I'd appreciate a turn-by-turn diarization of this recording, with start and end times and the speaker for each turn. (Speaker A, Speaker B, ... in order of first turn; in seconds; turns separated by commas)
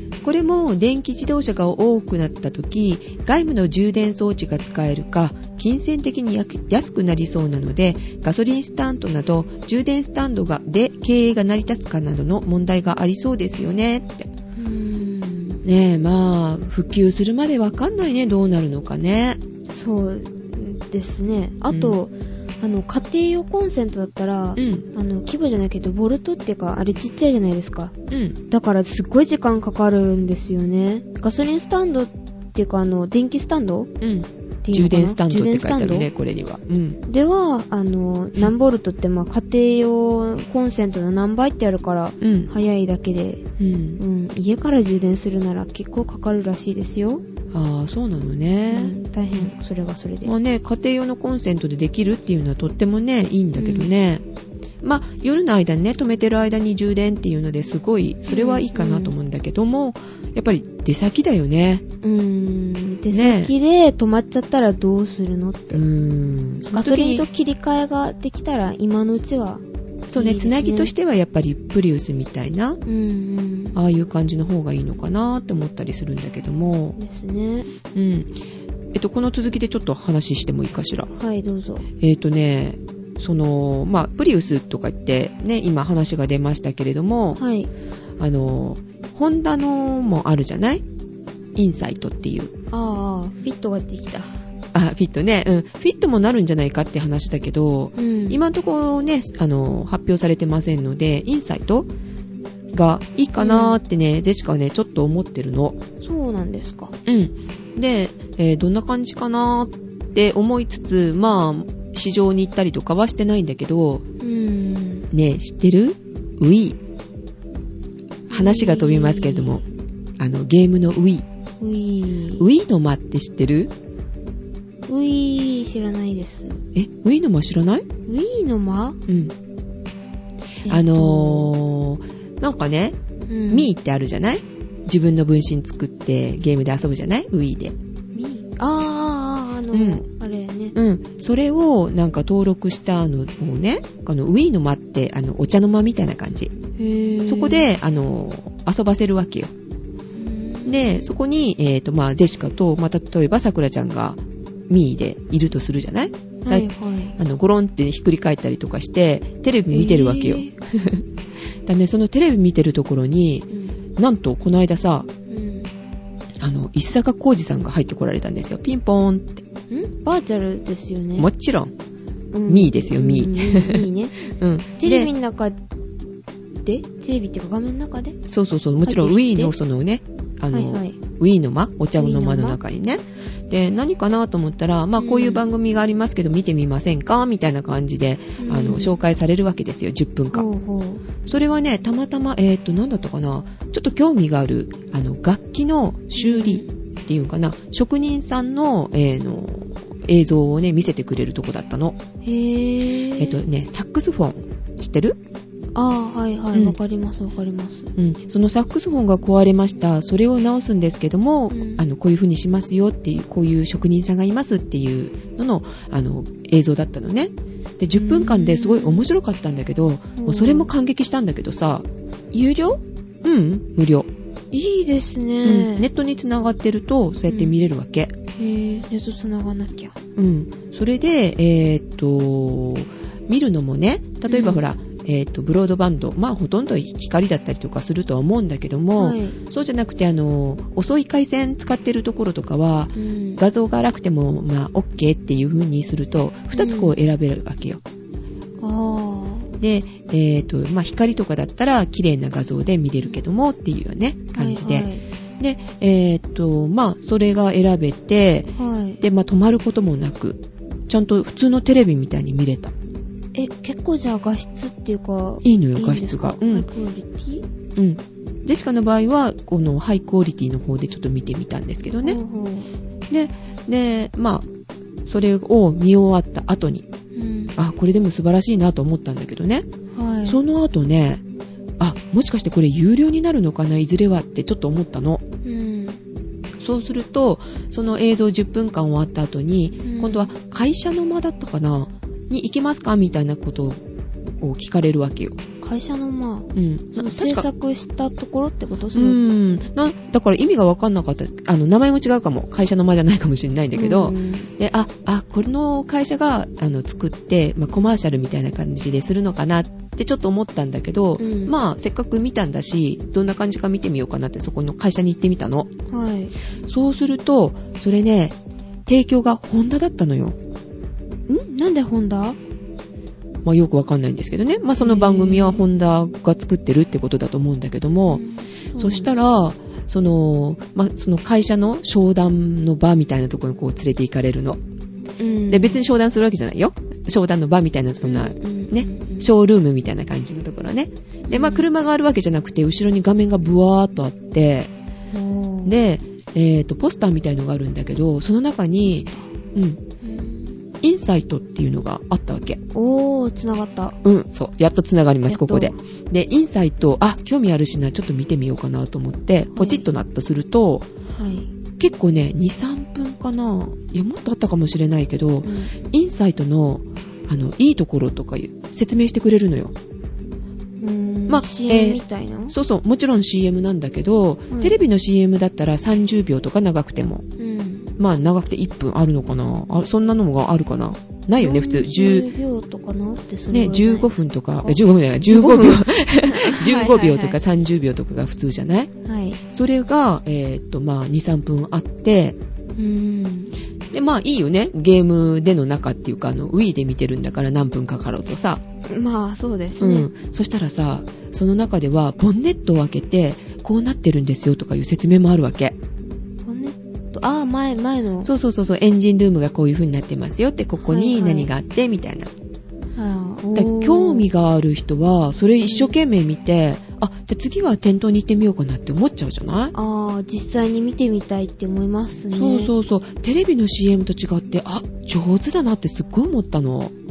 Speaker A: 0.2-14.3, Speaker B: 14.6-15.6, Speaker A: 15.6-19.4, Speaker B: 19.7-27.9, Speaker A: 21.7-22.0, Speaker A: 24.6-24.9, Speaker A: 28.1-28.4, Speaker B: 28.5-33.9, Speaker A: 34.0-37.0, Speaker B: 34.6-36.1, Speaker B: 37.1-43.4, Speaker A: 42.2-42.5, Speaker A: 43.6-44.0, Speaker B: 44.0-47.2, Speaker A: 47.5-49.5, Speaker B: 48.7-50.3, Speaker A: 50.2-54.2, Speaker B: 53.5-53.9, Speaker A: 54.8-61.8, Speaker B: 58.3-59.1, Speaker B: 62.0-65.8, Speaker A: 63.1-63.5, Speaker A: 65.7-67.2, Speaker B: 66.7-69.6, Speaker A: 70.1-72.8, Speaker B: 70.1-70.9, Speaker B: 72.8-73.8, Speaker A: 73.7-77.0, Speaker B: 77.0-77.7, Speaker A: 77.9-78.3, Speaker A: 78.9-81.1, Speaker B: 81.1-81.8, Speaker A: 82.0-87.4, Speaker B: 87.3-87.7, Speaker A: 88.2-90.8, Speaker A: 91.5-92.5, Speaker B: 92.7-94.4, Speaker A: 94.7-101.9, Speaker B: 98.0-98.4, Speaker A: 102.7-105.8, Speaker B: 103.4-103.8, Speaker B: 106.0-106.9, Speaker A: 107.0-114.0, Speaker B: 114.2-115.1, Speaker A: 115.1-116.8, Speaker A: 118.3-119.6, Speaker B: 118.3-119.7, Speaker A: 120.2-121.2, Speaker B: 121.6-122.5, Speaker A: 122.4-123.7, Speaker B: 124.9-126.6, Speaker A: 126.7-127.8, Speaker B: 128.1-129.0, Speaker A: 129.1-129.3, Speaker B: 130.6-131.5, Speaker A: 130.7-133.0, Speaker B: 133.3-133.7, Speaker A: 133.5-137.8, Speaker B: 138.1-140.7, Speaker A: 139.7-140.0, Speaker A: 140.7-146.5, Speaker B: 146.8-147.7, Speaker A: 147.2-149.5, Speaker B: 150.1-151.0, Speaker A: 150.7-161.0, Speaker B: 156.4-157.1, Speaker B: 159.7-160.5, Speaker A: 161.7-165.1, Speaker B: 163.5-163.8, Speaker B: 165.3-165.7, Speaker A: 166.4-169.4, Speaker B: 169.7-171.3, Speaker A: 171.2-171.7, Speaker B: 172.3-174.2, Speaker A: 172.5-175.1, Speaker B: 174.8-175.6, Speaker B: 176.6-178.2, Speaker A: 178.3-190.4, Speaker B: 178.8-179.5, Speaker B: 180.5-181.0, Speaker B: 182.0-182.6, Speaker B: 185.0-185.4, Speaker B: 188.4-189.0, Speaker B: 190.3-191.0, Speaker A: 191.2-202.0, Speaker B: 196.2-196.7, Speaker B: 202.2-203.4, Speaker A: 203.2-205.2, Speaker B: 205.7-207.9, Speaker A: 207.9-221.8, Speaker B: 211.5-211.8, Speaker B: 217.9-219.1, Speaker B: 220.2-220.7, Speaker B: 222.3-222.8, Speaker A: 223.2-224.1, Speaker B: 224.5-225.9, Speaker A: 225.4-228.1, Speaker B: 227.3-227.6, Speaker B: 228.3-229.9, Speaker A: 230.2-247.8, Speaker B: 234.3-234.6, Speaker B: 238.9-239.4, Speaker B: 242.9-243.4, Speaker B: 246.5-246.9, Speaker B: 248.6-249.5, Speaker A: 249.6-262.7, Speaker B: 254.3-255.0, Speaker B: 258.6-259.0, Speaker B: 263.3-267.4, Speaker A: 265.4-266.7, Speaker A: 267.8-272.2, Speaker B: 272.0-272.7, Speaker A: 273.1-274.5, Speaker A: 275.0-276.9, Speaker B: 277.1-277.5, Speaker A: 277.6-279.7, Speaker B: 279.9-280.4, Speaker A: 280.2-281.2, Speaker A: 281.8-285.2, Speaker B: 285.4-286.0, Speaker A: 286.6-293.8, Speaker B: 289.8-290.3, Speaker A: 294.4-295.4, Speaker B: 295.6-299.2, Speaker A: 296.5-297.5, Speaker A: 298.9-315.7, Speaker B: 303.7-304.5, Speaker B: 311.2-311.5, Speaker B: 315.9-316.3, Speaker A: 316.6-320.4, Speaker B: 321.3-322.4, Speaker A: 323.4-328.2, Speaker B: 324.8-325.6, Speaker B: 328.1-329.2, Speaker A: 328.8-334.6, Speaker B: 335.2-335.8, Speaker A: 335.5-344.7, Speaker B: 338.0-339.3, Speaker B: 341.3-341.7, Speaker B: 345.1-345.8, Speaker A: 345.6-349.8, Speaker B: 348.9-349.3, Speaker B: 350.0-350.6, Speaker A: 350.8-352.6, Speaker B: 352.7-354.0, Speaker A: 354.0-360.9, Speaker B: 355.3-355.8, Speaker B: 359.5-359.9, Speaker B: 361.1-361.5, Speaker A: 361.8-369.7, Speaker B: 365.4-365.7, Speaker B: 370.8-372.5, Speaker A: 371.3-377.2, Speaker B: 374.5-374.8, Speaker B: 377.4-377.9, Speaker A: 378.0-382.3, Speaker B: 381.4-387.4, Speaker A: 383.5-388.9, Speaker B: 389.0-389.4, Speaker A: 389.5-392.4, Speaker B: 392.8-393.5, Speaker A: 393.9-398.6, Speaker B: 398.9-400.1, Speaker A: 399.8-405.8, Speaker B: 406.4-408.3, Speaker A: 408.2-412.3, Speaker B: 410.8-411.5, Speaker B: 412.9-414.3, Speaker A: 413.5-419.7, Speaker B: 415.6-416.0, Speaker B: 419.7-422.7, Speaker A: 422.3-426.9